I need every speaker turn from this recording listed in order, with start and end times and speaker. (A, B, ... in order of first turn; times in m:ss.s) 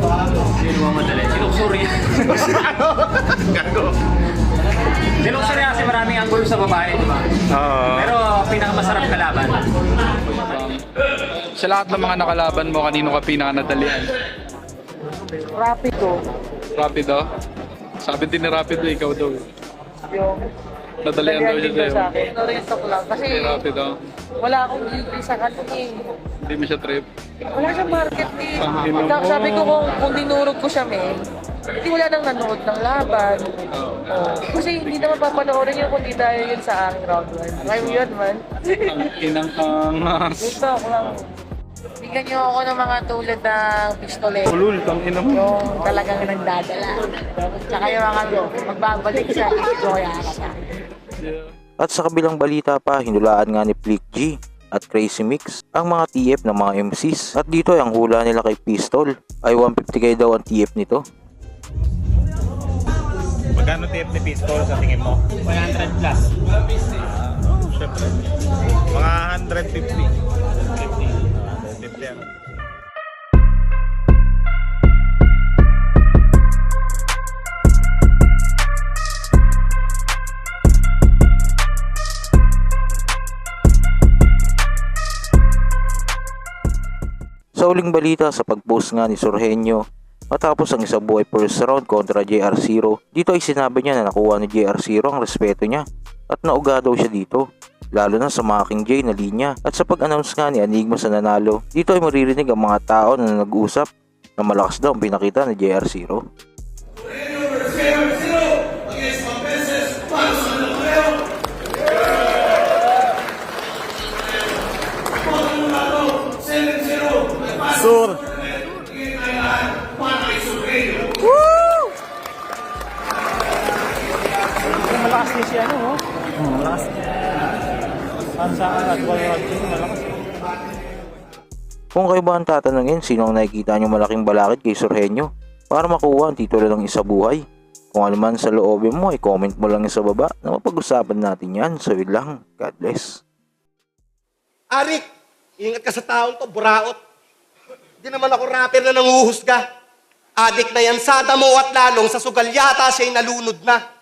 0:00.6-0:02.1 A
0:05.2-0:07.2 A
0:07.5-0:08.2 B
0:08.0-0:09.6 A
0:10.4-0:10.8 B
0:11.6-0:14.1 B
0:15.6-0:16.2 C
0:16.8-0:17.2 B
0:18.0-0:19.5 B
0:20.1-0:20.4 C
0:21.0-0:22.1 B
0:21.2-0:23.6 C
0:23.2-0:23.9 B
0:24.4-0:26.0 C
0:26.4-0:27.0 B
0:27.5-0:31.2 C
0:28.6-0:29.8 B
0:31.8-0:38.9 C
0:33.7-0:35.2 B
0:37.6-0:38.1 B
0:38.9-0:40.6 B
0:40.4-0:41.2 C
0:42.0-0:44.5 C
0:44.5-0:45.5 B
0:45.3-0:50.6 C
0:51.2-0:51.5 B
0:51.8-1:01.0 D
1:03.5-1:06.3 E
1:07.4-1:08.1 E
1:08.9-1:10.1 E
1:10.8-1:12.3 E
1:27.6-1:43.9 D
1:44.4-1:46.2 D
2:11.9-2:23.2 D
2:24.7-2:25.0 F
2:25.6-2:27.0 F
2:28.0-2:29.6 F
2:30.4-2:33.8 F